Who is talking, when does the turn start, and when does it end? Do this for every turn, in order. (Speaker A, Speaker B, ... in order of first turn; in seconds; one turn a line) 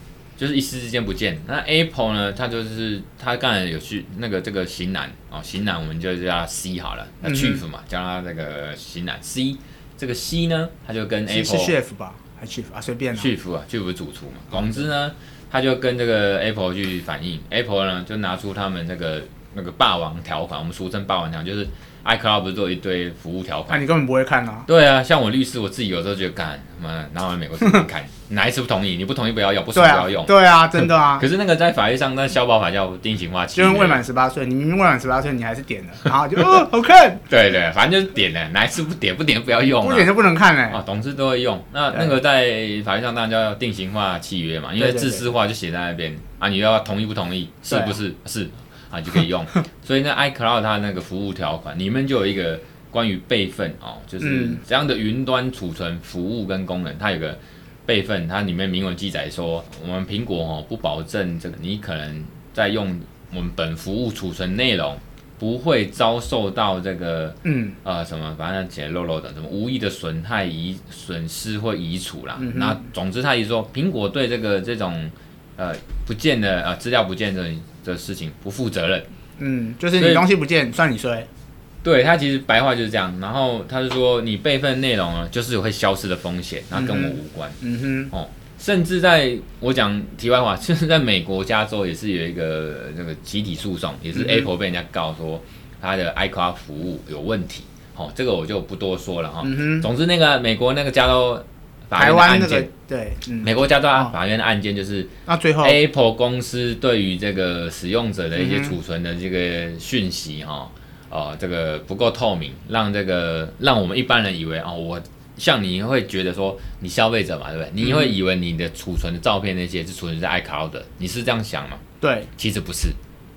Speaker A: 0.4-11.7
Speaker B: 7.2-7.6
Speaker B: 11.3-13.3
Speaker A: 13.1-23.8
Speaker B: 23.7-24.7
Speaker A: 24.7-34.0
Speaker B: 29.7-31.2
Speaker B: 33.5-37.2
Speaker A: 37.3-40.1
Speaker B: 39.8-40.8
Speaker A: 40.7-79.0
Speaker B: 44.8-45.2
Speaker B: 47.7-48.0
Speaker B: 54.2-54.6
Speaker B: 67.4-67.8
Speaker B: 72.4-72.8
Speaker B: 79.4-81.3
Speaker A: 79.9-80.2
Speaker A: 81.8-87.6
Speaker B: 86.7-88.1
Speaker A: 88.1-102.7
Speaker B: 94.1-94.5
Speaker B: 99.4-99.9
Speaker B: 102.0-104.1
Speaker A: 103.4-121.8
Speaker B: 105.3-105.8
Speaker B: 108.3-108.8
Speaker B: 117.8-118.1
Speaker B: 122.0-122.3
Speaker A: 122.4-123.0